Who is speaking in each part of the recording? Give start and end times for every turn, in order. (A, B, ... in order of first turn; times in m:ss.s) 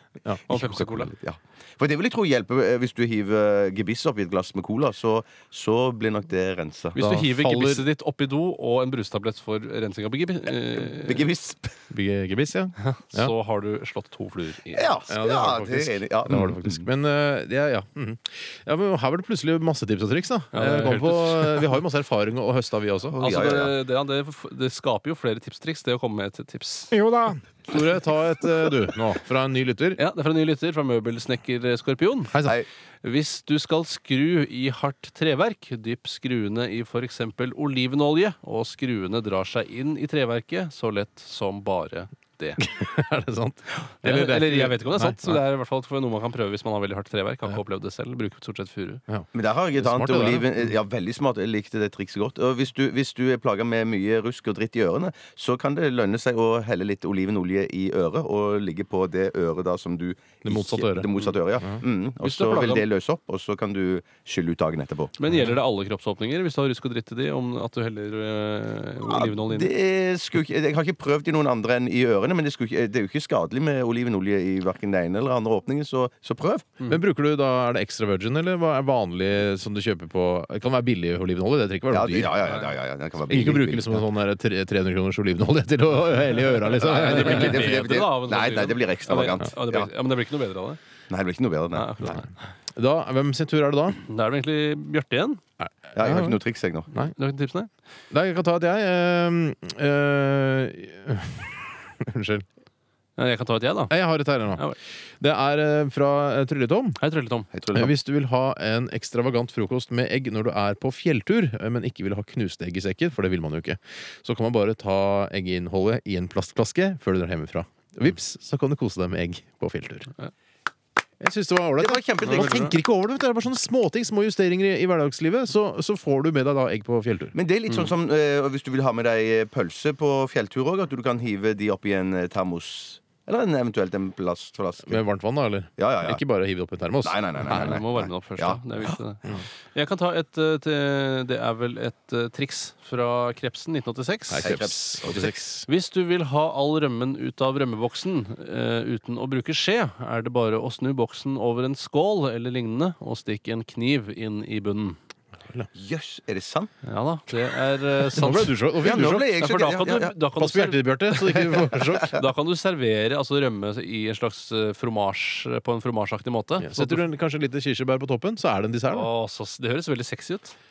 0:00.4-0:07.0 A
0:00.5-0:01.1 B
0:07.0-0:07.8 C
0:07.0-0:11.3 B
0:10.9-0:11.8 A
0:11.9-0:13.3 C
0:12.8-0:15.0 B
0:14.7-0:16.9 A
0:15.1-0:23.2 C
0:20.5-0:21.8 B
0:23.1-0:23.7 A
0:23.2-0:26.9 B
0:26.9-0:30.0 C
0:30.0-0:32.4 B
0:32.3-0:32.6 C
0:33.0-0:42.6 B
0:42.6-0:45.4 C
0:43.9-0:49.0 B
0:49.1-0:50.7 C
0:49.3-1:05.1 A
1:00.4-1:01.8 C
1:02.2-1:02.8 B
1:05.2-1:09.7 B
1:09.1-1:16.7 A
1:16.8-1:22.4 C
1:21.9-1:24.0 A
1:23.3-1:27.6 C
1:26.7-1:30.8 B
1:26.8-1:29.9 A
1:31.1-1:31.9 A
1:31.7-1:32.3 B
1:32.7-1:34.0 C
1:34.0-1:35.4 B
1:35.6-1:36.4 C
1:36.0-1:36.9 A
1:36.9-1:37.7 B
1:38.1-1:42.4 C
1:43.2-1:43.9 B
1:43.9-1:47.0 C
1:47.0-1:47.5 B
1:47.5-1:47.9 A
1:47.7-2:00.1 C
2:01.2-2:07.3 C
2:01.8-2:02.7 A
2:02.3-2:02.7 B
2:07.3-2:15.0 A
2:14.9-2:17.8 C
2:15.8-2:16.2 A
2:17.0-2:18.6 A
2:17.5-2:35.0 B
2:24.3-2:25.7 C
2:24.4-2:25.3 A
2:35.7-2:36.7 A
2:36.8-2:38.6 B
2:38.2-2:39.4 C
2:38.8-2:40.2 A
2:39.3-2:47.1 B
2:40.4-2:42.2 C
2:46.6-2:49.1 C
2:48.9-2:50.5 B